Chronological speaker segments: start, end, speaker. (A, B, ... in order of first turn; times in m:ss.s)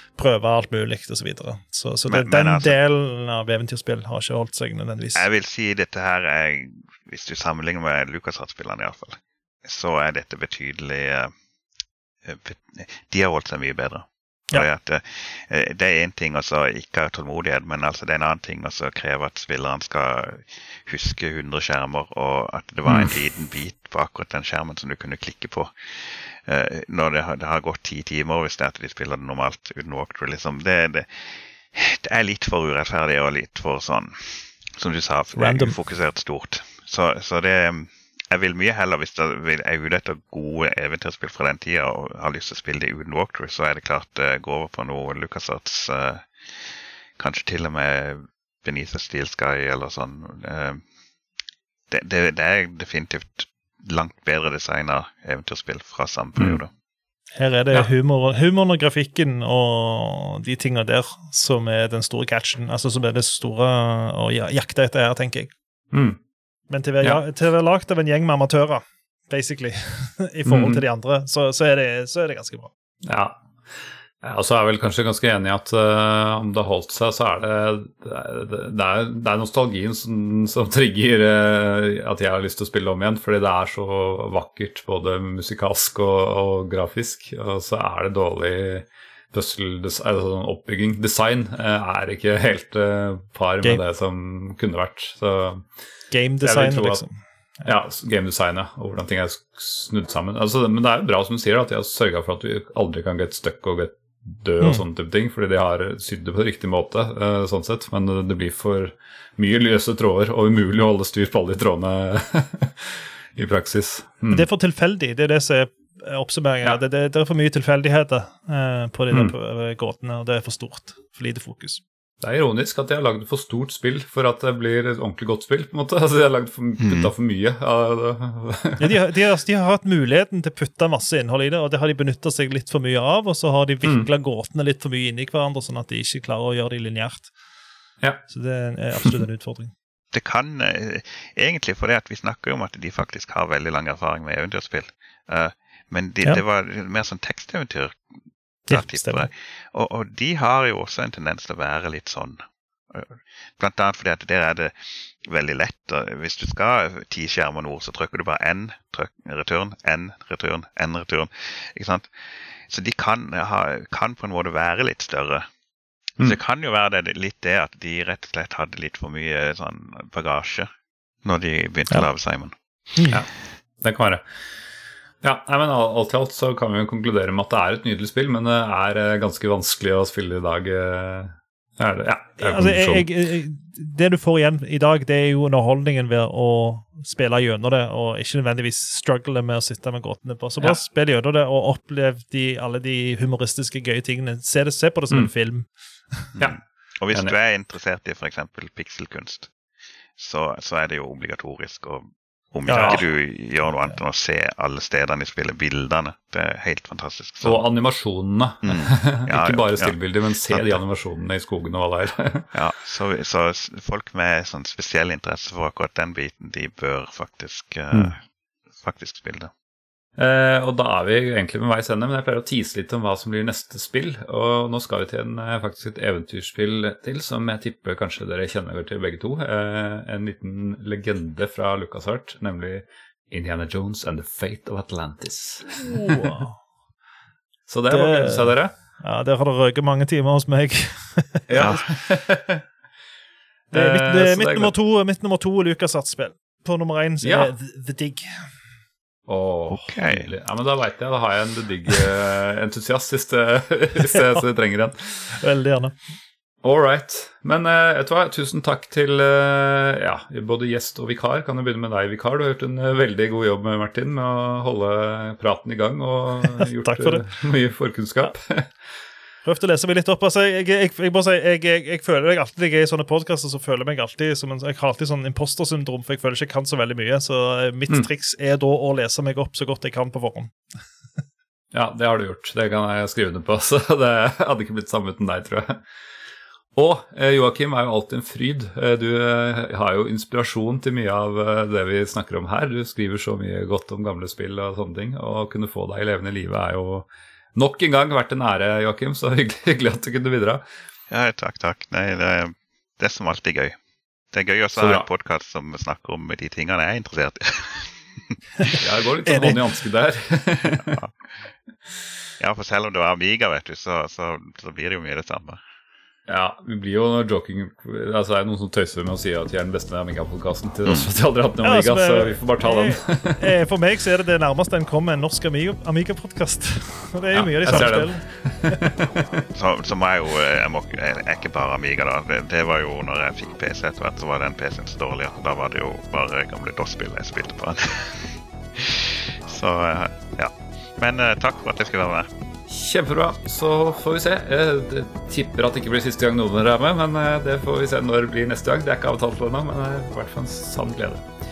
0:00.2-0:05.2 A
0:02.1-0:02.8 B
0:05.2-0:11.3 B
0:12.2-0:50.8 B
0:22.9-0:23.1 C
0:35.4-0:35.8 A
0:51.9-0:56.7 B
0:57.4-1:05.5 A
1:05.9-1:06.2 C
1:06.7-1:12.7 A
1:10.5-1:10.8 C
1:13.0-1:13.4 C
1:14.2-1:35.7 C
1:36.1-1:37.6 A
1:36.4-1:37.0 C
1:37.6-1:54.5 C
1:54.3-2:01.8 A
2:02.2-2:09.0 C
2:06.8-2:07.1 B
2:08.8-2:17.3 A
2:18.3-2:19.7 A
2:20.1-2:28.0 B
2:28.7-2:42.1 B
2:28.7-2:29.3 A
2:42.7-2:45.5 B
2:46.2-2:50.7 B
2:51.2-2:52.5 B
2:53.0-2:53.2 A
2:53.8-2:54.2 C
2:55.2-3:03.1 C
3:02.4-3:16.3 A
3:16.4-3:19.5 B
3:20.2-3:27.6 B
3:22.7-3:23.0 A
3:22.8-3:23.1 C
3:27.4-3:32.5 C
3:28.6-3:30.8 B
3:32.5-3:38.2 B
3:38.8-3:39.5 B
3:40.2-3:56.4 C
3:55.8-3:56.6 A
3:57.7-3:58.7 C
3:57.9-4:01.6 A
4:01.5-4:02.6 C
4:03.7-4:04.7 C
4:03.7-4:08.3 A
4:07.2-4:07.5 C
4:09.3-4:15.4 C
4:09.8-4:10.3 B
4:14.1-4:14.4 A
4:15.3-4:16.0 A
4:16.6-4:28.7 C
4:26.6-4:27.3 A
4:29.4-4:40.5 A
4:41.7-4:45.8 C
4:46.8-5:00.6 C
5:01.1-5:03.8 B
5:04.3-5:08.0 B
5:04.7-5:05.1 C
5:08.8-5:11.0 C
5:09.2-5:09.6 A
5:10.8-5:11.1 B
5:12.4-5:15.6 B
5:16.3-5:23.6 C
5:21.6-5:28.8 A
5:27.4-5:28.0 B
5:27.6-5:29.4 C
5:29.6-5:42.3 B
5:42.7-5:51.3 C